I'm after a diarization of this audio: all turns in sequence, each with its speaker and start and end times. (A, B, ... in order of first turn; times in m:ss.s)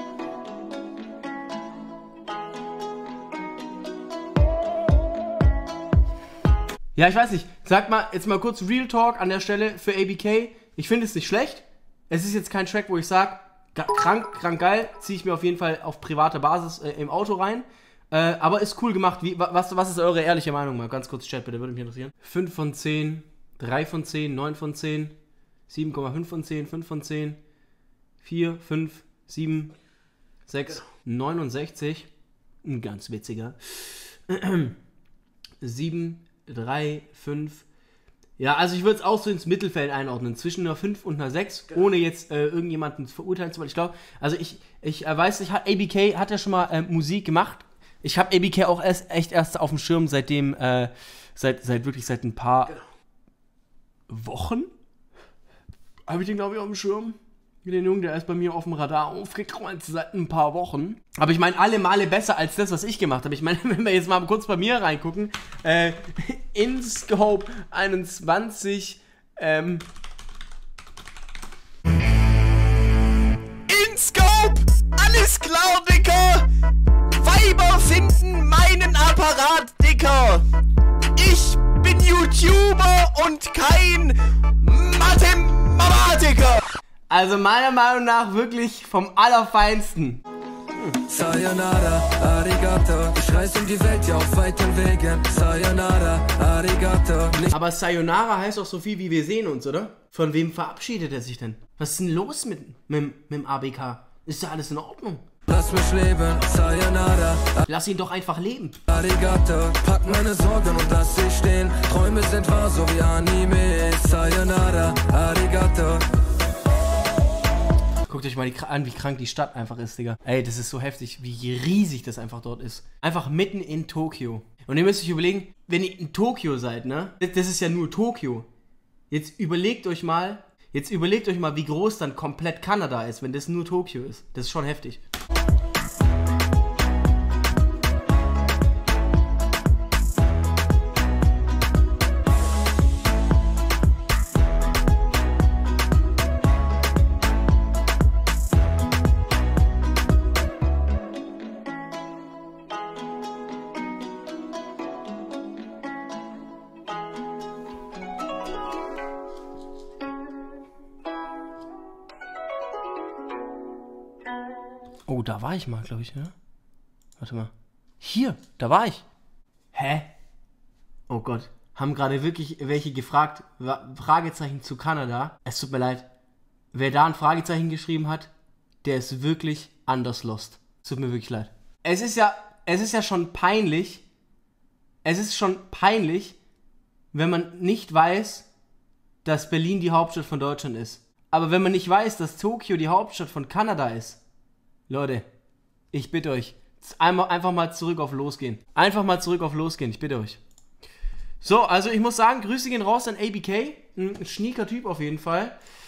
0:07.0-0:25.2 A
0:25.7-0:27.4 A
0:28.2-0:29.8 A
0:30.5-0:32.1 A
0:32.6-0:34.8 A
0:35.6-0:37.7 A
0:38.4-0:52.8 A
0:54.1-0:54.7 A
0:56.1-1:09.9 A
1:13.7-1:16.5 B
1:17.1-1:20.4 B
1:21.2-1:26.7 B
1:27.1-1:30.2 A
1:31.0-1:37.5 C
1:37.4-1:45.3 A
1:45.5-1:47.6 C
1:47.6-1:48.9 A
1:48.9-1:56.1 C
1:58.0-2:08.5 A
2:09.1-2:15.0 A
2:45.1-2:46.3 A
2:47.2-2:49.0 A
2:49.7-2:50.1 A
2:51.1-2:56.1 A
2:56.7-2:58.3 A
2:58.8-3:04.0 A
3:05.0-3:06.4 A
3:07.1-3:08.5 A
3:09.2-3:14.2 A
3:14.9-3:15.3 A
3:15.9-3:20.4 A
3:21.4-3:25.6 A